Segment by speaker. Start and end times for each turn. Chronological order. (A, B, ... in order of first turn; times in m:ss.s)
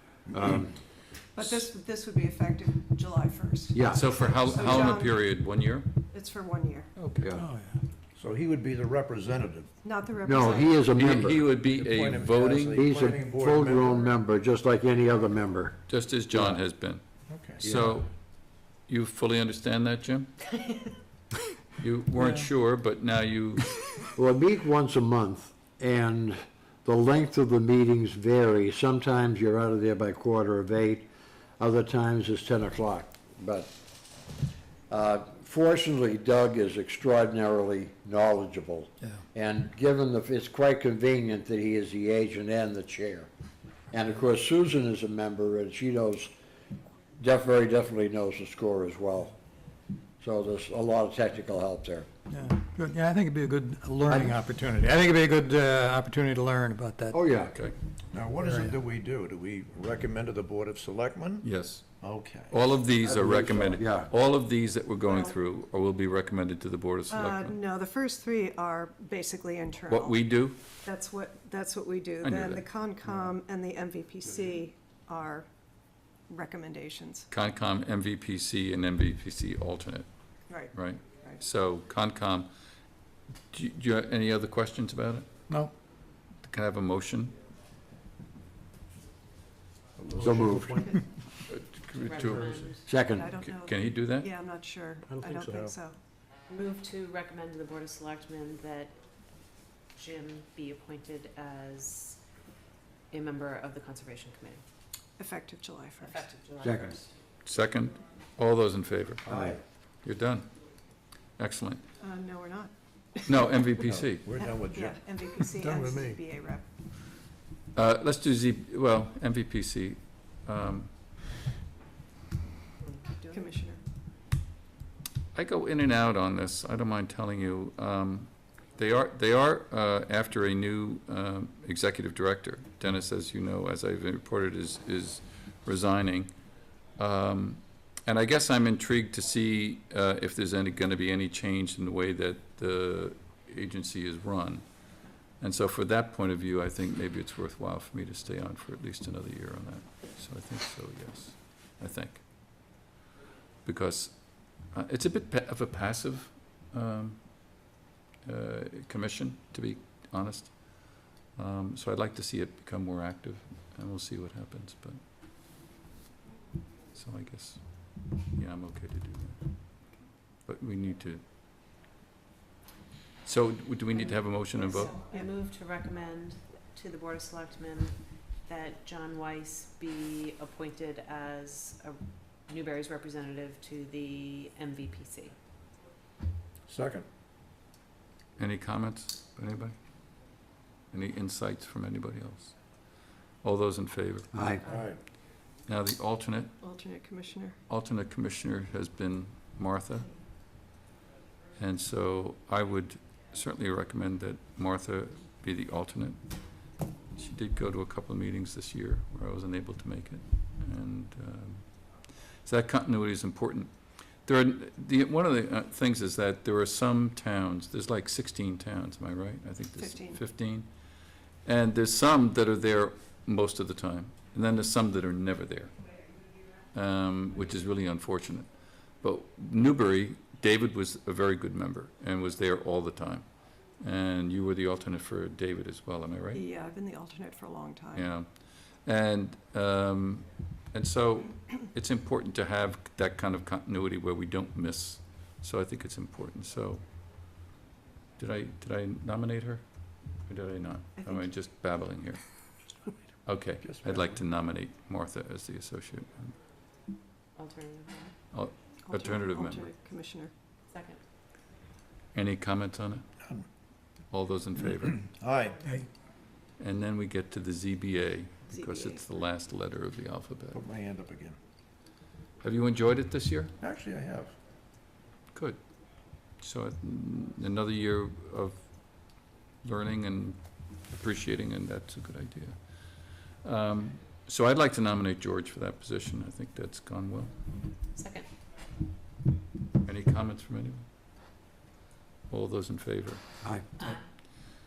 0:00.3-0:00.8 A
0:01.4-0:05.3 B
0:03.7-0:04.7 A
0:03.8-0:05.9 C
0:06.1-0:06.9 B
0:07.0-0:07.4 C
0:07.2-0:07.5 A
0:07.4-0:07.8 D
0:08.2-0:09.7 E
0:09.8-0:10.9 B
0:10.2-0:11.5 A
0:10.8-0:12.7 C
0:11.4-0:14.1 E
0:12.6-0:15.8 A
0:15.9-0:17.0 C
0:16.3-0:16.6 A
0:17.3-0:17.9 E
0:17.6-0:20.3 C
0:20.6-0:20.9 F
0:21.8-0:23.9 C
0:24.1-0:31.1 A
0:31.6-0:33.7 A
0:34.9-0:43.3 A
0:43.9-0:46.3 A
0:47.2-0:49.4 A
0:50.2-0:52.1 A
0:52.3-0:57.2 D
0:54.0-0:54.4 A
0:57.1-0:57.6 A
0:57.4-0:57.8 C
0:58.1-1:01.5 E
0:58.4-0:58.8 D
1:01.4-1:01.9 C
1:02.0-1:02.6 E
1:02.5-1:07.6 C
1:03.0-1:04.1 A
1:05.0-1:05.3 B
1:07.1-1:10.3 B
1:09.9-1:10.6 C
1:10.8-1:15.5 B
1:12.2-1:12.7 C
1:16.3-1:17.3 B
1:17.3-1:22.5 C
1:20.5-1:21.4 B
1:23.5-1:25.4 C
1:26.4-1:27.3 C
1:30.0-1:31.0 E
1:30.2-1:30.8 A
1:31.5-1:32.8 C
1:32.0-1:32.8 F
1:32.8-1:33.4 A
1:33.1-1:36.0 B
1:33.4-1:34.3 C
1:35.1-1:35.7 E
1:36.5-1:39.0 F
1:40.0-1:42.2 F
1:43.1-1:44.6 F
1:45.2-1:46.3 B
1:46.0-1:47.1 F
1:46.6-1:47.0 A
1:47.4-1:49.2 C
1:49.3-1:49.6 A
1:49.3-1:49.6 E
1:50.0-1:50.5 C
1:51.4-1:51.8 C
1:52.0-1:53.7 B
1:53.2-1:54.3 C
1:53.9-1:56.2 E
1:54.4-1:56.7 B
1:57.8-2:00.9 C
2:02.8-2:03.4 F
2:03.3-2:03.8 B
2:05.4-2:16.3 C
2:17.0-2:24.7 C
2:25.4-2:32.7 C
2:33.6-2:45.0 C
2:46.9-2:49.8 C
2:50.5-2:51.2 C
2:53.2-2:55.1 C
2:54.0-3:05.4 F
3:06.7-3:07.1 E
3:08.4-3:09.8 C
3:10.9-3:12.6 C
3:13.4-3:14.3 C
3:14.3-3:14.6 A
3:14.7-3:15.0 E
3:15.6-3:16.5 C
3:16.6-3:17.6 B
3:17.7-3:20.1 C
3:21.6-3:26.3 C
3:27.1-3:40.7 C
3:39.8-3:40.2 B
3:41.4-3:46.0 C
3:46.7-3:56.4 C
3:56.3-3:58.1 B
3:57.9-4:07.3 C
4:08.2-4:12.6 C
4:11.0-4:11.3 B
4:13.2-4:16.4 C
4:13.6-4:14.1 E
4:17.4-4:18.1 F
4:18.3-4:19.7 C
4:18.8-4:20.3 B
4:20.7-4:21.0 F
4:22.1-4:23.1 C
4:23.2-4:23.5 E
4:24.1-4:25.1 C
4:25.0-4:25.6 E
4:26.6-4:30.6 C
4:28.5-4:29.0 B
4:30.5-4:31.4 E
4:32.4-4:33.5 C
4:33.6-4:34.3 E
4:35.3-4:35.6 C
4:36.3-4:47.4 C
4:48.0-4:48.3 F
4:49.8-4:50.8 C
4:52.3-4:53.2 C